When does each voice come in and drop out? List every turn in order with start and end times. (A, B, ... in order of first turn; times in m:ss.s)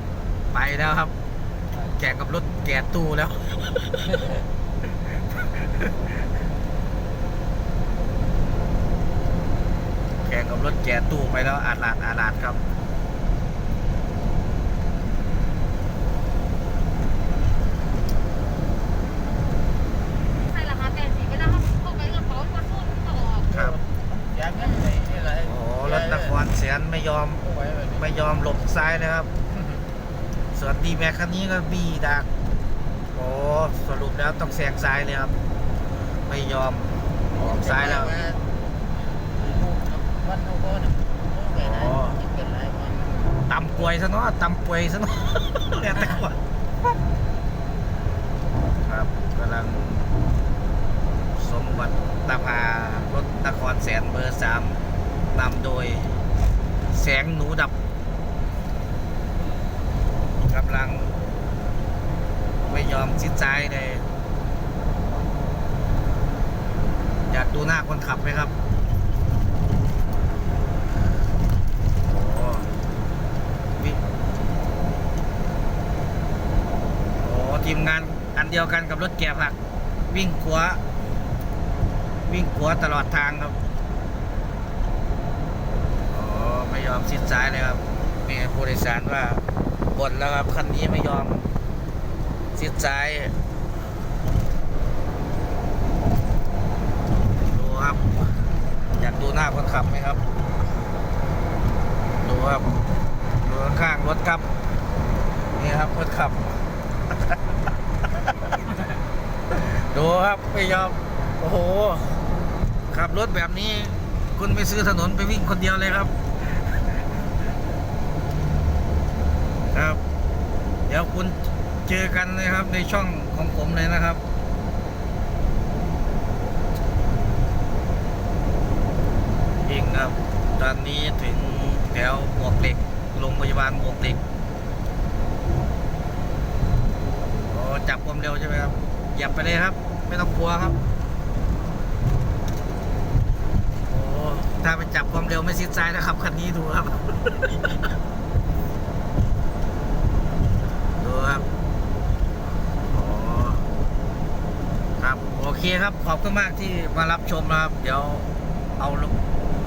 0:00.5-0:01.1 A
0:01.9-0:04.2 A
0:05.3-0:05.9 A
0:10.2-0:12.6 A
0:20.5-0:23.6 B
0:23.5-0:23.8 A
0:24.3-0:25.4 C
0:24.5-0:24.9 B
0:25.4-0:29.3 A
0:30.5-0:32.3 A
0:33.1-0:35.3 A
0:36.2-0:38.2 A
0:37.5-0:38.4 C
0:39.2-0:43.1 C
0:41.6-0:42.2 A
0:42.9-0:43.4 B
0:43.5-0:46.4 A
0:48.8-0:50.1 A
0:51.4-0:56.2 A
0:56.9-0:57.8 A
1:00.5-1:01.2 A
1:02.6-1:04.1 A
1:07.3-1:08.5 A
1:12.0-1:12.7 A
1:13.8-1:14.0 A
1:17.2-1:19.6 A
1:20.1-1:20.8 A
1:22.3-1:23.6 A
1:26.1-1:31.5 A
1:32.5-1:33.4 A
1:37.4-1:38.3 A
1:38.9-1:40.2 A
1:42.2-1:42.7 A
1:43.4-1:44.5 A
1:45.5-1:46.5 A
1:48.1-1:48.8 A
1:49.5-1:52.2 A
1:52.9-1:56.8 A
1:59.7-2:00.0 A
2:00.9-2:04.2 A
2:09.6-2:14.2 A
2:17.5-2:20.8 A
2:23.9-2:27.9 A
2:31.0-2:31.5 A
2:32.9-2:33.6 A
2:35.0-2:39.2 A